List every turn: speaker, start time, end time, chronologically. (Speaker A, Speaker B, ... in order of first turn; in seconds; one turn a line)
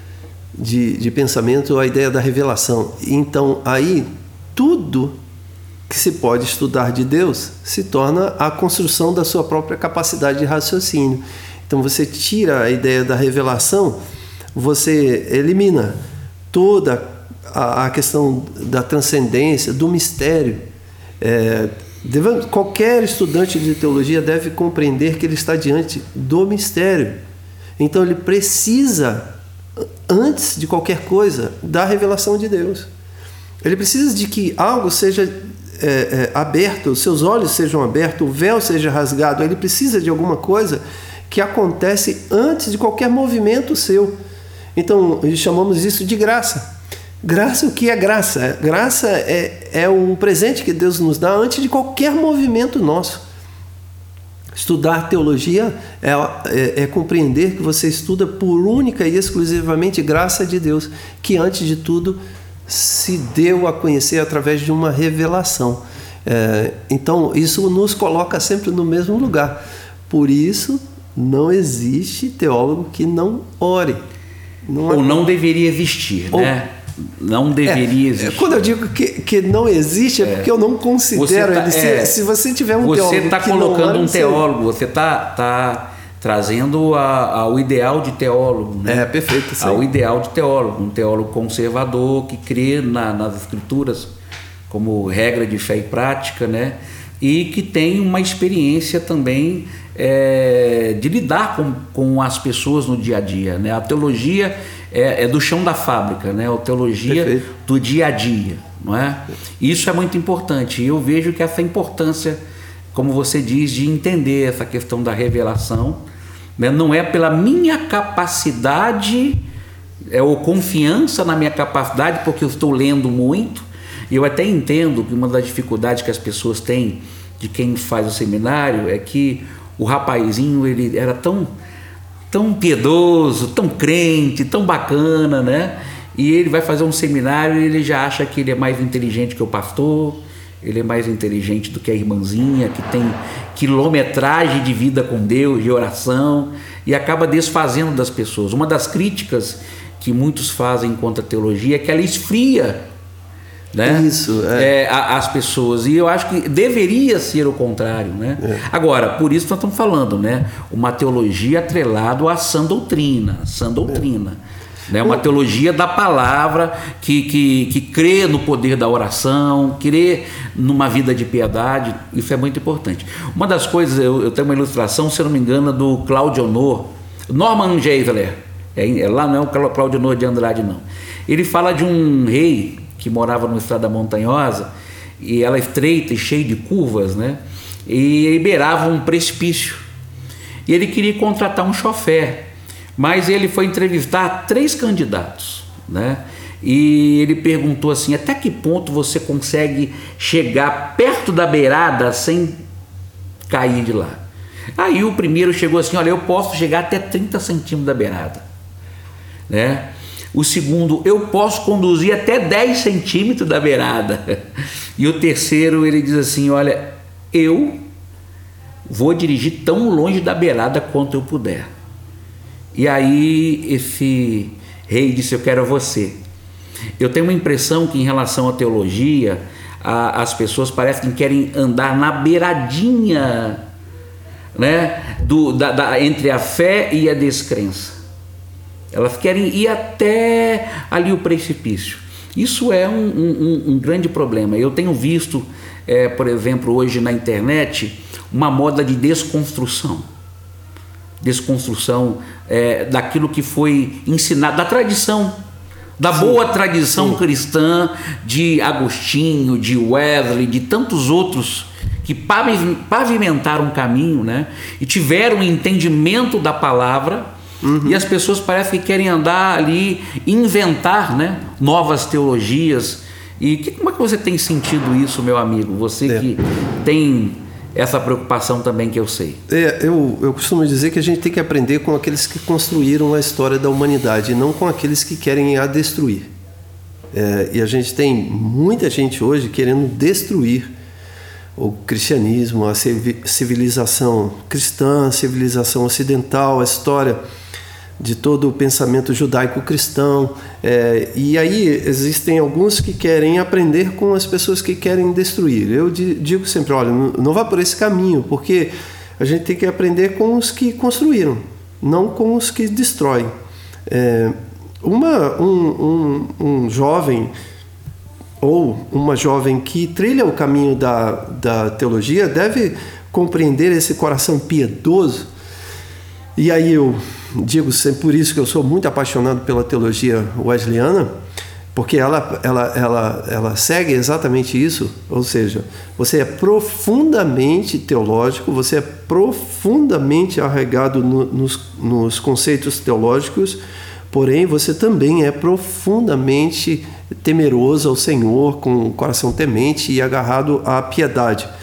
Speaker A: 0.5-5.1
Speaker A: 5.9-14.0
Speaker A: 14.5-16.0
Speaker A: 16.5-20.6
Speaker A: 21.2-27.2
Speaker A: 27.8-29.3
Speaker A: 30.1-32.9
Speaker A: 33.6-44.1
Speaker A: 44.8-46.7
Speaker A: 47.2-53.2
Speaker A: 54.5-74.0
Speaker A: 74.7-75.2
Speaker B: 74.9-78.6
Speaker A: 77.6-84.4
Speaker B: 80.2-80.5
Speaker B: 81.1-82.2
Speaker B: 82.8-89.1
Speaker A: 88.9-89.8
Speaker B: 89.6-94.1
Speaker B: 94.7-112.4
Speaker A: 107.1-107.5
Speaker B: 112.9-116.0
Speaker B: 116.6-119.4
Speaker B: 120.1-131.5
Speaker B: 132.3-152.8
Speaker B: 153.7-189.8
Speaker A: 153.8-154.7
Speaker B: 190.7-202.6
Speaker B: 203.5-204.2
Speaker B: 204.8-208.4
Speaker B: 209.5-214.4
Speaker B: 215.0-217.8
Speaker B: 218.9-221.7
Speaker B: 222.7-226.2
Speaker B: 227.0-233.6
Speaker B: 234.5-238.0
Speaker B: 238.9-250.1
Speaker B: 251.2-255.4
Speaker B: 256.0-267.3
Speaker A: 256.1-257.2
Speaker A: 267.6-268.0
Speaker B: 267.8-279.4
Speaker A: 279.5-286.3
Speaker A: 287.1-290.7
Speaker A: 291.6-297.2
Speaker A: 298.0-313.3
Speaker A: 313.9-317.3
Speaker A: 318.4-325.3
Speaker A: 326.4-331.1
Speaker A: 331.7-343.6
Speaker A: 344.1-351.5